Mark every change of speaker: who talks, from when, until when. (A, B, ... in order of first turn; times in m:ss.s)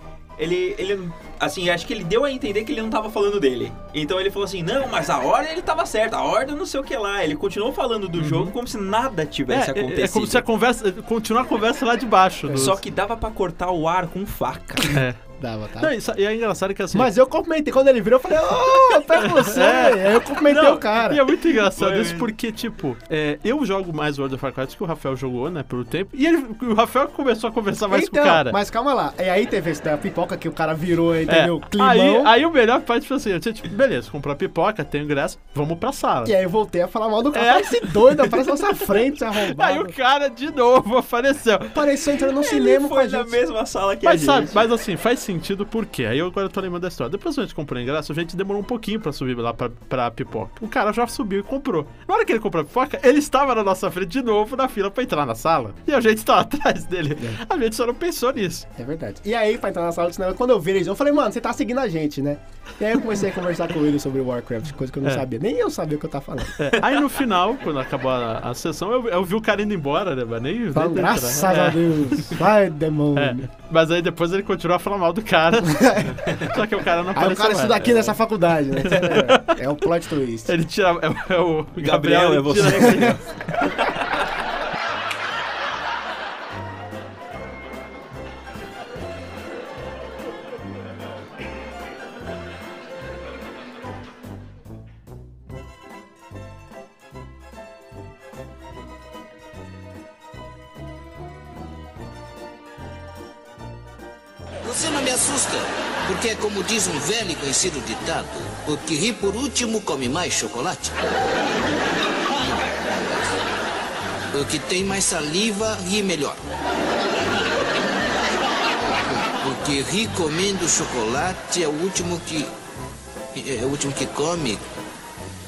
0:00.4-0:10.4 A
0:08.2-0:08.5 B
0:09.5-0:12.8 B
0:12.5-0:14.9 A
0:14.9-0:15.2 B
0:15.4-0:15.9 C
0:15.8-0:17.1 B
0:16.9-0:21.2 C
0:18.7-0:28.6 B
0:21.6-0:22.3 A
0:27.9-0:32.3 C
0:31.3-0:36.3 B
0:36.2-0:39.9 C
0:37.3-0:41.9 B
0:41.7-0:43.4 C
0:42.3-0:44.7 A
0:44.0-0:58.7 B
0:58.8-1:06.7 C
1:06.6-1:12.4 B
1:10.7-1:13.4 C
1:13.1-1:18.2 B
1:15.6-1:16.2 C
1:17.1-1:20.5 C
1:18.8-1:19.6 B
1:20.4-1:23.2 B
1:21.8-1:24.1 A
1:44.6-1:51.0 D
1:52.4-1:53.2 D
1:54.3-1:56.4 D
1:59.0-2:02.5 D
2:03.3-2:04.6 D